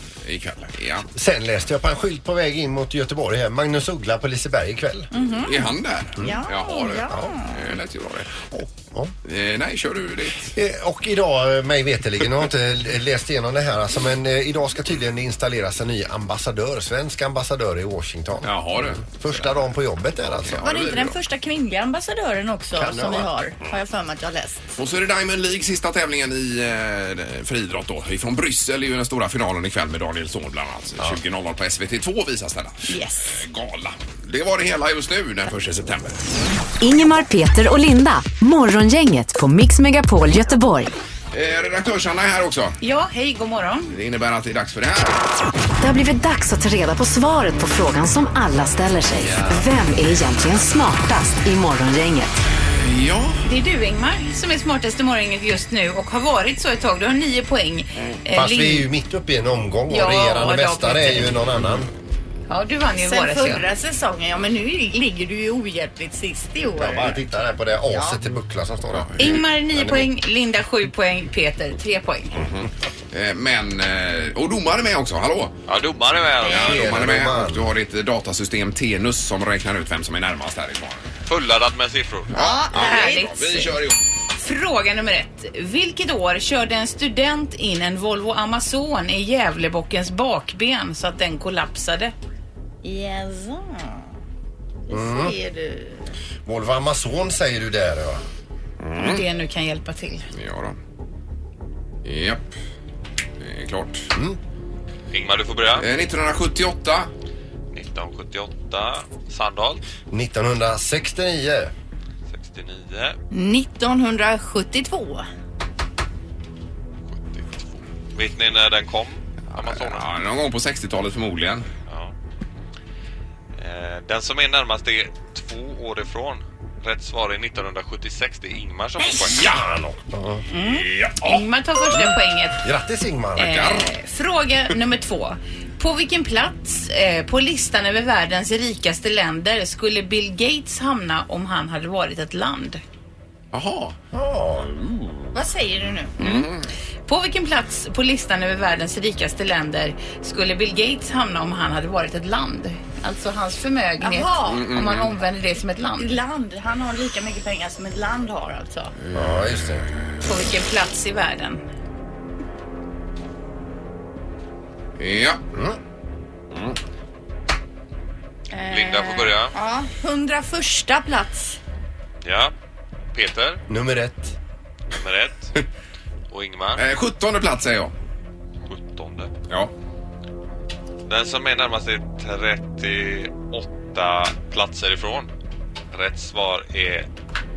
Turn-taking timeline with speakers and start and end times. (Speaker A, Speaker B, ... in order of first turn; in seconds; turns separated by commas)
Speaker A: 0.2-1.1, Speaker B: 1.1-5.1, Speaker C: 5.1-5.7, Speaker A: 5.4-8.4, Speaker C: 6.2-7.6, Speaker B: 8.5-9.1, Speaker A: 9.2-10.5, Speaker B: 10.5-20.6, Speaker A: 18.4-19.5, Speaker A: 20.2-21.1, Speaker C: 20.6-24.6, Speaker B: 22.8-23.3, Speaker A: 24.8-36.2, Speaker C: 32.9-33.4, Speaker D: 36.8-40.9, Speaker A: 41.3-42.8, Speaker E: 42.8-43.9, Speaker A: 43.9-45.2, Speaker D: 45.8-52.4, Speaker A: 52.7-53.4, Speaker E: 53.4-58.9, Speaker B: 58.3-61.9, Speaker E: 59.9-61.3, Speaker E: 62.5-63.6, Speaker C: 63.0-67.2, Speaker B: 66.8-70.1, Speaker C: 67.9-68.2, Speaker A: 68.9-69.4, Speaker E: 69.2-72.4, Speaker A: 72.3-75.5, Speaker F: 75.7-76.8, Speaker A: 76.4-81.1, Speaker B: 76.4-77.7, Speaker F: 81.3-82.3, Speaker A: 82.3-84.0, Speaker C: 82.3-83.7, Speaker E: 82.8-83.6, Speaker E: 84.4-92.1, Speaker C: 92.8-94.1, Speaker C: 94.9-96.0, Speaker B: 94.9-95.3, Speaker B: 96.4-98.2, Speaker A: 98.8-99.2, Speaker E: 99.0-100.2, Speaker A: 100.3-100.8, Speaker A: 102.0-102.5, Speaker A: 103.4-104.1, Speaker F: 105.1-105.9, Speaker A: 105.7-107.1, Speaker F: 107.7-109.8, Speaker B: 110.1-111.7, Speaker F: 112.3-113.2, Speaker C: 113.3-115.3, Speaker F: 117.1-120.1, Speaker A: 119.5-121.7, Speaker F: 121.9-122.1, Speaker F: 123.6-129.5, Speaker A: 129.2-129.6, Speaker B: 129.3-130.4, Speaker E: 130.5-132.7, Speaker A: 130.6-131.4, Speaker B: 132.6-133.7, Speaker E: 133.3-142.8, Speaker A: 133.5-133.9, Speaker A: 143.5-143.9, Speaker B: 144.1-144.7, Speaker A: 144.6-145.3, Speaker C: 145.3-146.1, Speaker A: 146.2-146.7, Speaker E: 146.2-146.5, Speaker E: 147.1-156.2, Speaker C: 154.0-154.6, Speaker A: 154.4-155.1, Speaker C: 156.0-158.9, Speaker A: 159.0-159.6, Speaker B: 159.1-159.8, Speaker E: 160.2-161.6, Speaker A: 165.0-165.4, Speaker B: 165.5-165.8, Speaker C: 168.6-171.6, Speaker F: 168.7-169.5, Speaker F: 172.2-172.5, Speaker F: 173.1-173.6, Speaker B: 173.7-174.3, Speaker F: 174.9-175.5, Speaker F: 176.3-176.8, Speaker A: 176.7-177.9, Speaker F: 178.7-179.3, Speaker F: 181.1-185.3, Speaker F: 185.9-187.1